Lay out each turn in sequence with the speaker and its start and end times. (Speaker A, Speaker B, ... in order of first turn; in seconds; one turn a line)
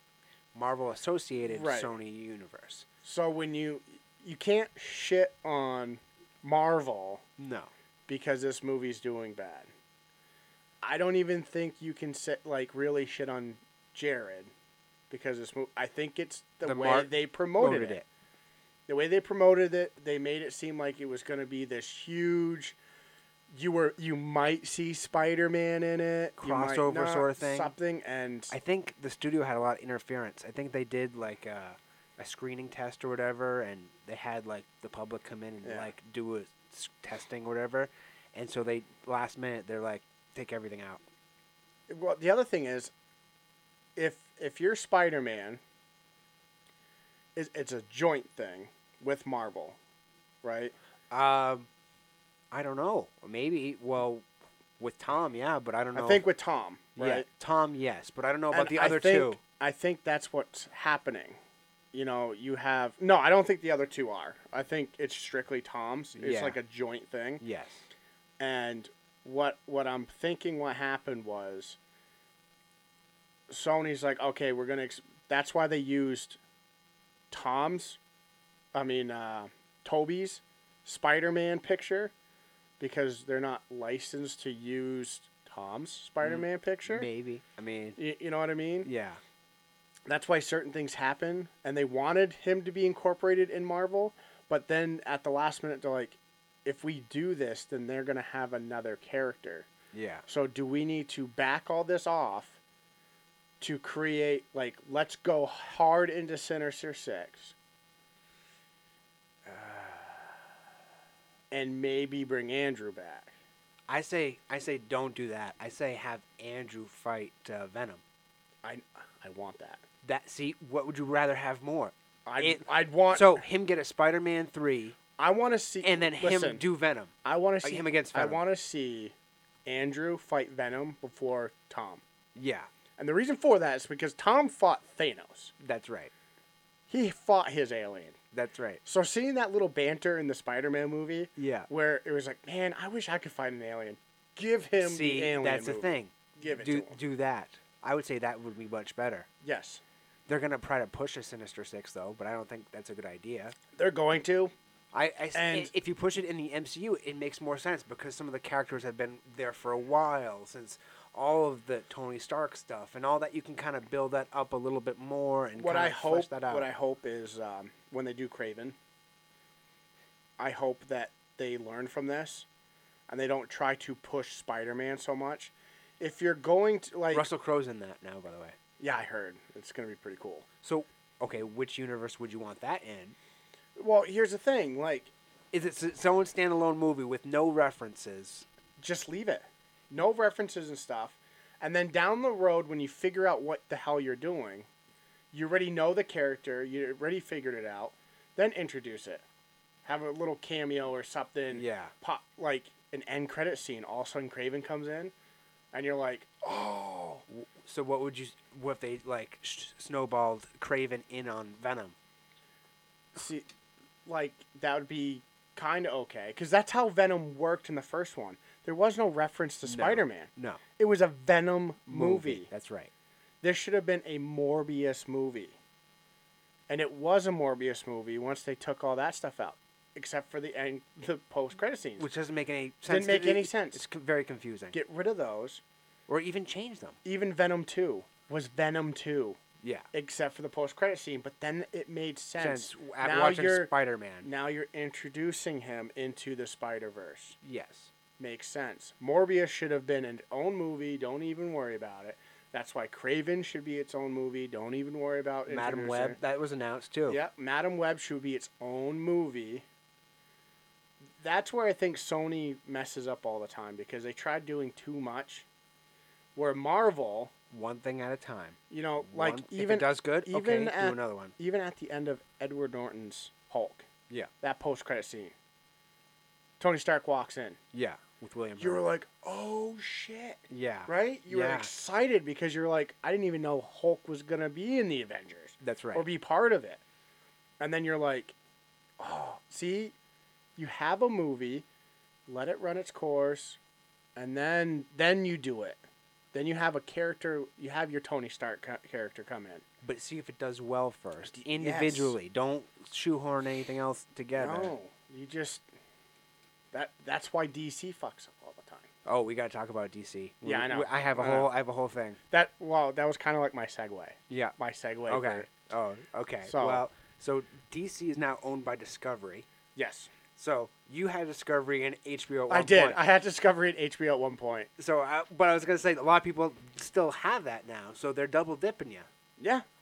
Speaker A: 0.5-2.9
Speaker B: 1.5-1.9
Speaker B: 3.0-7.2
Speaker A: 7.4-7.7
Speaker B: 8.1-9.7
Speaker B: 10.8-14.5
Speaker B: 15.1-18.0
Speaker A: 16.6-18.0
Speaker B: 18.9-22.8
Speaker B: 23.5-28.5
Speaker A: 26.4-27.7
Speaker A: 28.5-41.0
Speaker B: 35.6-35.9
Speaker B: 41.9-42.9
Speaker B: 44.0-45.6
Speaker B: 47.4-49.8
Speaker B: 50.4-50.7
Speaker A: 51.1-51.7
Speaker A: 52.5-54.2
Speaker A: 54.8-56.2
Speaker B: 55.9-57.2
Speaker A: 57.0-59.4
Speaker B: 58.5-61.4
Speaker B: 61.9-67.4
Speaker A: 66.2-66.6
Speaker A: 67.4-67.9
Speaker B: 68.4-71.8
Speaker B: 73.5-76.4
Speaker B: 77.3-78.0
Speaker B: 78.7-82.1
Speaker B: 82.8-87.1
Speaker A: 86.2-88.0
Speaker B: 88.0-88.9
Speaker A: 88.8-89.2
Speaker B: 90.1-99.7
Speaker A: 99.9-100.2
Speaker B: 100.3-102.6
Speaker B: 103.6-107.5
Speaker B: 109.5-110.3
Speaker B: 111.5-113.3
Speaker A: 113.9-118.0
Speaker B: 118.6-119.8
Speaker A: 120.0-125.0
Speaker B: 122.2-123.4
Speaker B: 125.2-126.6
Speaker A: 125.8-128.4
Speaker B: 127.2-129.1
Speaker B: 129.7-132.0
Speaker A: 132.3-132.7
Speaker B: 133.0-135.5
Speaker A: 135.6-136.1
Speaker B: 136.9-138.2
Speaker A: 138.3-138.8
Speaker B: 138.8-147.0
Speaker A: 141.4-141.7
Speaker A: 144.8-149.3
Speaker B: 149.4-149.8
Speaker A: 150.3-153.5
Speaker B: 153.7-154.5
Speaker A: 154.9-166.7
Speaker B: 155.3-155.7
Speaker B: 165.6-168.8
Speaker B: 170.4-172.5
Speaker B: 173.1-177.3
Speaker A: 177.1-178.5
Speaker B: 178.8-180.5
Speaker A: 180.6-183.2
Speaker B: 183.8-185.1
Speaker A: 185.5-188.4
Speaker B: 188.8-194.7
Speaker B: 195.3-199.2
Speaker B: 199.8-205.1
Speaker A: 201.5-201.9
Speaker B: 205.7-207.2
Speaker A: 207.3-211.9
Speaker B: 213.1-213.4
Speaker B: 214.1-222.5
Speaker A: 219.6-220.6
Speaker A: 221.9-222.9
Speaker B: 223.4-225.6
Speaker B: 226.7-232.1
Speaker A: 232.0-234.8
Speaker B: 232.9-233.8
Speaker B: 234.7-235.6
Speaker A: 236.1-237.0
Speaker B: 237.0-239.4
Speaker A: 239.6-239.9
Speaker B: 239.9-243.7
Speaker A: 242.4-244.3
Speaker B: 244.2-247.4
Speaker A: 247.4-247.9
Speaker B: 248.2-256.2
Speaker A: 255.5-257.2
Speaker B: 257.1-259.6
Speaker B: 261.2-265.4
Speaker B: 266.3-267.3
Speaker A: 267.5-271.3
Speaker B: 268.7-273.9
Speaker B: 274.4-275.3
Speaker B: 276.6-277.6
Speaker A: 277.7-278.8
Speaker B: 278.6-286.8
Speaker A: 280.5-281.7
Speaker A: 285.6-286.1
Speaker B: 287.6-288.3
Speaker B: 289.0-289.9
Speaker B: 290.6-291.6
Speaker B: 292.3-293.6
Speaker B: 294.1-295.8
Speaker B: 296.3-299.6
Speaker A: 299.8-304.7
Speaker B: 301.4-302.1
Speaker B: 304.4-305.6
Speaker B: 306.7-308.9
Speaker A: 309.0-312.2
Speaker B: 310.4-311.5
Speaker B: 312.3-315.5
Speaker A: 314.3-314.5
Speaker A: 315.1-319.4
Speaker B: 316.4-316.8
Speaker B: 319.7-320.1
Speaker A: 320.4-323.0
Speaker B: 322.5-324.7
Speaker A: 324.8-329.1
Speaker B: 329.4-329.6